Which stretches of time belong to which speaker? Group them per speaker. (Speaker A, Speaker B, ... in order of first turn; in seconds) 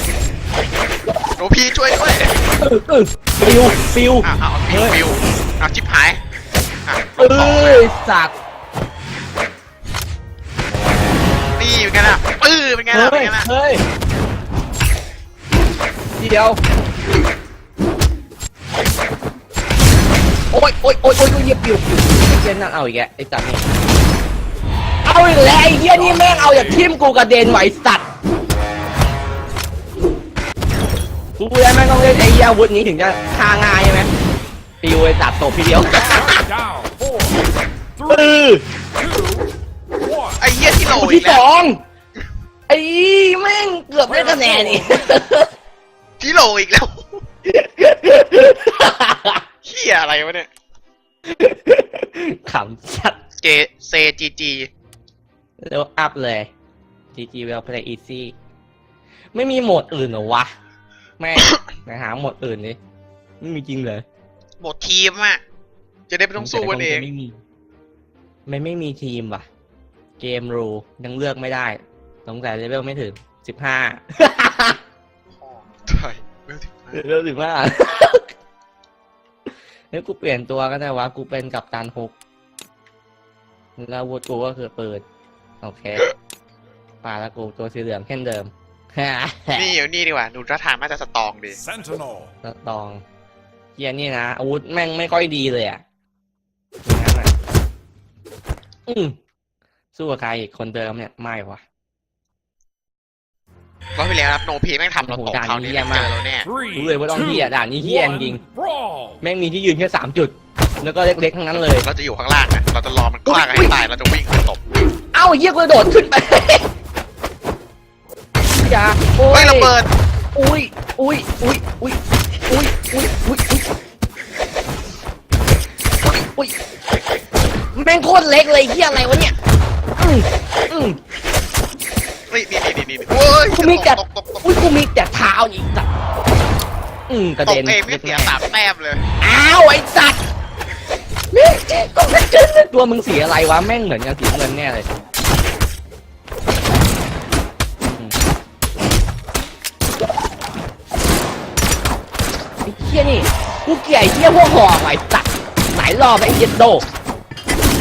Speaker A: 1.4-2.3, 4.2-6.2, 6.9-7.9, 11.6-13.5, 40.4-41.4, 46.2-47.2, 49.6-50.5, 53.4-54.7, 64.6-65.4, 66.1-67.1, 75.3-77.0, 89.5-91.6, 104.0-106.5, 111.5-114.7, 119.3-119.9, 132.3-134.5, 137.4-139.0
Speaker B: 2.6-5.0, 7.2-8.3, 12.9-13.8, 16.2-16.6, 20.5-23.6, 25.0-28.0, 31.4-34.1, 34.8-36.4, 38.1-38.6, 40.9-41.8, 42.7-45.5, 47.4-49.4, 51.3-53.2, 55.6-56.5, 57.1-58.3, 59.3-60.5, 61.2-62.8, 63.4-64.0, 66.3-67.4, 68.5-69.5, 70.2-74.8, 76.9-78.3, 79.9-82.1, 83.8-85.0, 85.6-86.1, 87.0-89.7, 92.4-93.0, 93.8-95.8, 96.8-97.3, 98.9-99.2, 99.9-101.6, 105.0-106.1, 106.7-108.4, 109.2-111.9, 113.2-113.7, 115.1-116.7, 118.6-119.7, 120.3-123.7, 126.0-126.5, 127.7-129.3, 130.0-131.0, 133.5-135.9, 137.1-138.3, 139.2-140.2, 141.3-144.9, 147.8-148.2, 152.6-156.8
Speaker C: 25.9-26.9, 35.8-39.5, 40.0-40.4, 44.1-45.1, 91.5-92.3, 106.4-109.2